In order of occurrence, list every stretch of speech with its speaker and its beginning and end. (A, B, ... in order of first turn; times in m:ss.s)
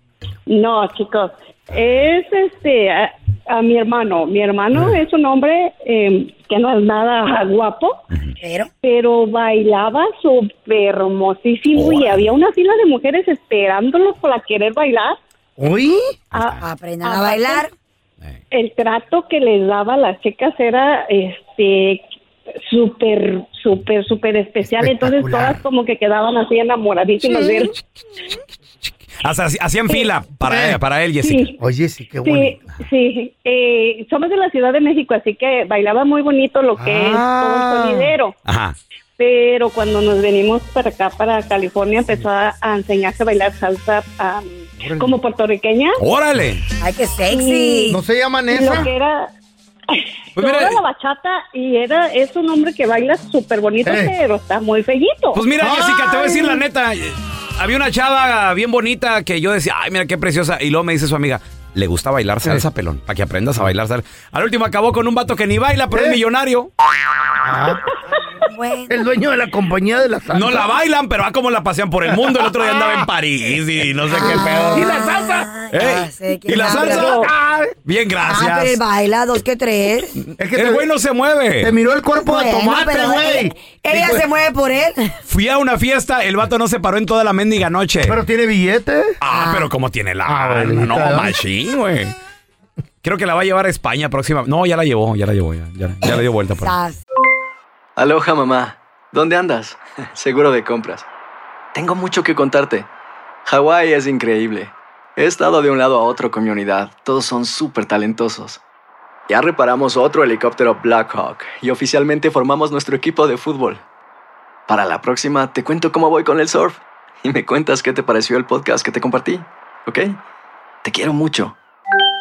0:00.5-0:08.0 A
0:08.4-0:08.7 B
0:08.8-0:15.2 A
0:11.8-0:12.2 C
0:15.6-0:16.2 D
0:16.3-0:16.6 C
0:16.6-0:17.7 B
0:18.5-0:22.0 A
0:22.6-0:27.8 A
0:24.7-0:25.6 D
0:27.2-0:27.6 D
0:29.2-0:31.5 C
0:30.5-0:30.8 D
0:31.2-0:31.6 A
0:31.6-0:32.6 D
0:32.2-0:38.4 A
0:36.8-0:38.1 D
0:38.4-0:38.8 C
0:39.2-0:46.0 A
0:44.8-0:45.1 D
0:46.0-0:46.6 C
0:46.8-0:48.0 B
0:47.3-0:47.9 A
0:47.9-0:48.9 D
0:48.5-0:49.3 A
0:49.9-0:55.4 A
0:50.4-0:50.8 C
0:53.8-0:54.1 D
0:55.3-1:06.7 C
0:55.6-0:56.4 D
1:05.9-1:06.2 D
1:07.4-1:07.8 D
1:08.5-1:09.1 B
1:08.9-1:10.7 D
1:10.3-1:15.0 C
1:12.2-1:13.1 D
1:14.1-1:17.3 B
1:14.1-1:15.5 D
1:15.7-1:17.2 C
1:16.6-1:17.8 D
1:17.8-1:18.8 C
1:18.2-1:20.2 B
1:20.4-1:20.9 D
1:20.6-1:21.8 C
1:21.6-1:24.3 D
1:22.2-1:25.2 B
1:25.3-1:28.2 C
1:28.0-1:29.2 D
1:29.2-1:32.1 C
1:29.3-1:29.7 B
1:30.2-1:31.4 D
1:33.0-1:36.8 C
1:36.6-1:37.0 B
1:38.0-1:41.1 E
1:41.7-1:42.9 E
1:43.5-1:48.6 E
1:49.3-1:53.8 E
1:54.7-2:00.2 E
2:00.8-2:01.6 E